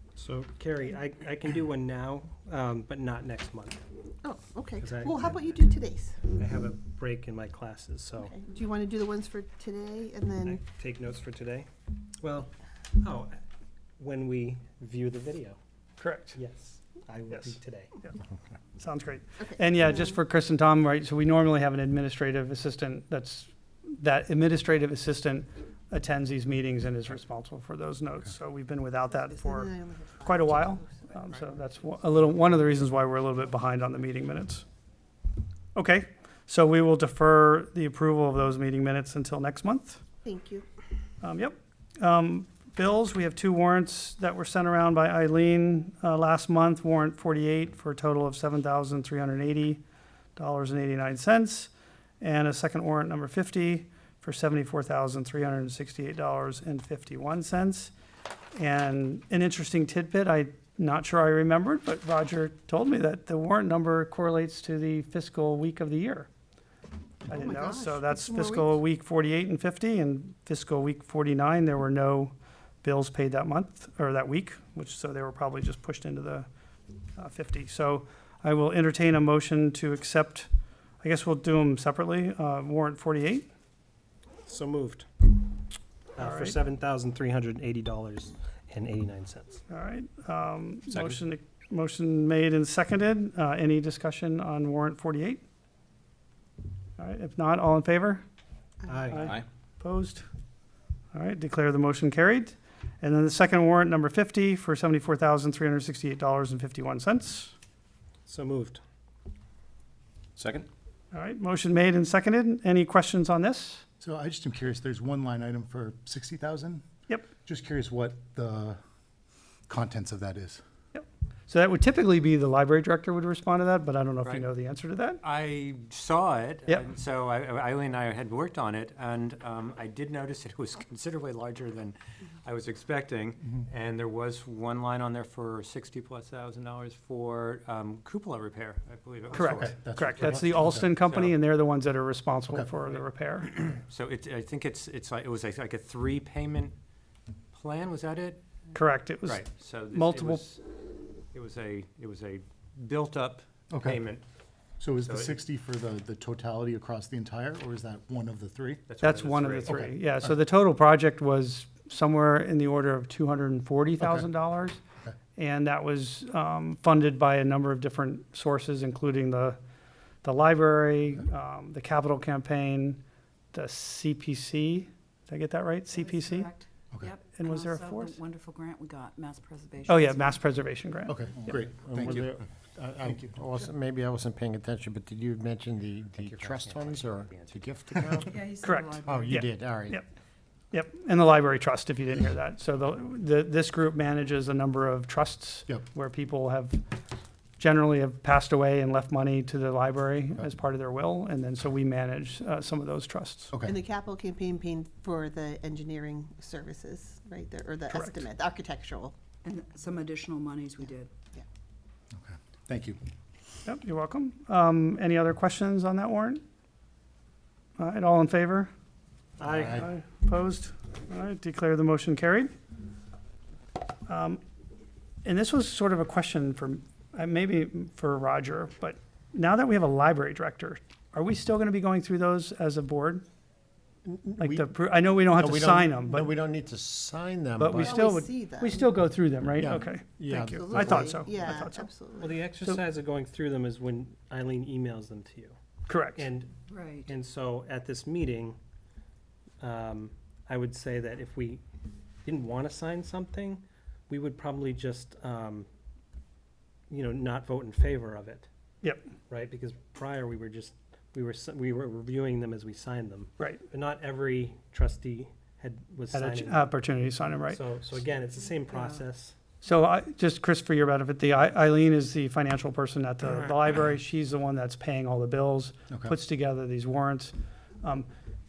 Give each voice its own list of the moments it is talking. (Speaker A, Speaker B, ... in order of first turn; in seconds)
Speaker A: 0.2-3.8, 4.8-5.4, 6.3-8.3, 10.4-11.7, 12.2-13.4, 14.0-15.6, 16.3-17.9, 84.5-85.1, 86.2-89.6, 98.8-99.4, 108.3-108.8, 219.4-219.8, 242.2-245.6, 246.2-248.6, 249.6-251.6, 252.2-255.7, 256.9-258.4, 259.3-266.7, 267.5-269.4
Speaker B: 4.2-6.2, 8.2-10.6, 19.4-20.2, 29.1-31.1, 40.2-40.7, 67.3-68.8, 203.6-209.2, 237.8-238.9, 240.3-242.4
Speaker C: 16.0-16.4, 17.3-18.1, 18.8-34.6, 35.7-40.0, 41.2-49.8, 50.4-57.9, 58.5-66.3, 67.3-76.5, 77.2-80.5, 81.0-83.5, 86.2-86.6, 89.7-95.4, 97.0-98.2, 99.1-100.2, 101.1-107.5, 111.1-113.8, 120.9-125.2, 139.3-143.5, 148.8-150.4, 159.0-164.8, 165.4-169.6, 170.2-173.0, 173.5-176.5, 177.3-178.2, 179.9-181.6, 188.6-190.0, 190.7-196.8, 197.6-203.5, 207.9-208.2, 213.7-216.4, 217.8-218.7, 219.5-222.5, 224.1-224.4, 225.2-233.2, 234.4-236.3, 237.6-241.9, 245.9-246.2, 266.1-267.6, 269.6-278.1
Speaker D: 114.0-116.8, 117.5-118.8, 119.7-120.6, 139.3-140.9, 153.7-154.0, 154.8-158.8, 159.7-160.3, 164.0-164.3, 181.1-182.4, 183.0-183.3, 203.5-203.8, 212.1-213.0, 275.9-276.2
Speaker E: 125.2-141.4, 142.9-146.8, 147.5-148.4, 149.2-150.6, 151.3-154.2, 155.0-155.4, 158.9-159.9, 186.2-188.1
Speaker F: 175.9-180.4, 188.2-189.4, 209.4-211.1, 246.7-247.1, 268.7-269.0
Speaker G: 181.9-188.4, 189.1-190.0, 234.1-234.7, 235.4-238.0, 239.6-241.2